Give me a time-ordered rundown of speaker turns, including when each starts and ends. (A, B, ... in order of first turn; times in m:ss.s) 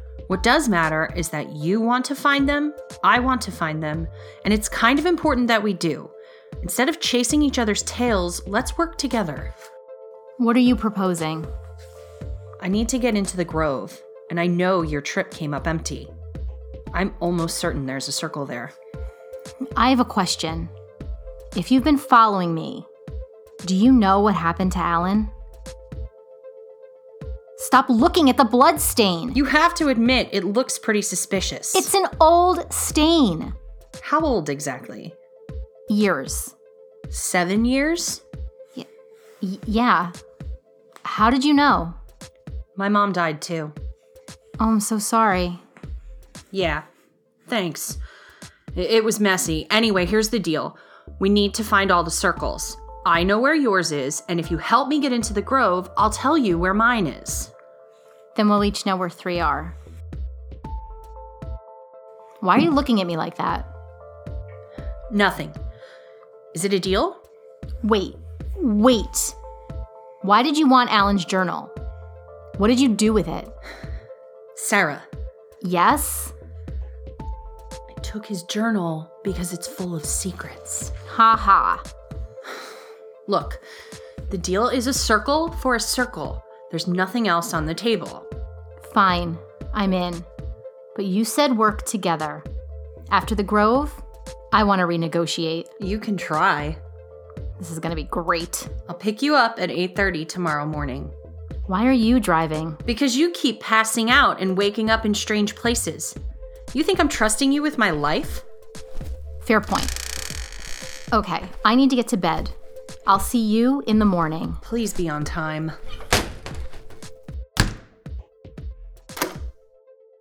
0:00.3-0:09.5 A
0:10.4-0:11.5 B
0:12.6-0:16.1 A
0:16.9-0:18.7 A
0:19.8-0:20.7 B
0:21.6-0:22.9 B
0:23.6-0:25.3 B
0:27.6-0:29.4 B
0:29.4-0:31.9 A
0:31.7-0:33.5 B
0:34.0-0:35.2 A
0:35.9-0:36.5 B
0:37.1-0:38.2 A
0:39.4-0:40.1 B
0:41.0-0:42.0 B
0:42.8-0:43.7 A
0:44.6-0:45.6 B
0:46.5-0:46.8 A
0:47.5-0:48.0 A
0:48.8-0:57.5 A
0:58.4-0:59.8 B
1:02.4-1:03.7 B
1:05.1-1:05.6 A
1:06.5-1:07.2 A
1:07.8-1:09.4 B
1:10.2-1:11.7 B
1:12.6-1:13.5 B
1:14.6-1:15.1 A
1:15.6-1:16.3 B
1:17.9-1:20.9 A
1:21.1-1:21.8 B
1:23.3-1:23.6 A
1:24.3-1:28.3 A
1:28.8-1:30.3 B
1:31.0-1:32.5 B
1:33.1-1:35.7 B
1:35.8-1:36.8 A
1:37.6-1:38.7 B
1:38.9-1:41.1 A
1:41.7-1:42.8 B
1:42.9-1:46.2 A
1:46.7-1:48.4 A
1:49.4-1:50.0 B
1:51.1-1:52.5 B
1:53.1-1:54.6 B
1:54.6-1:55.8 A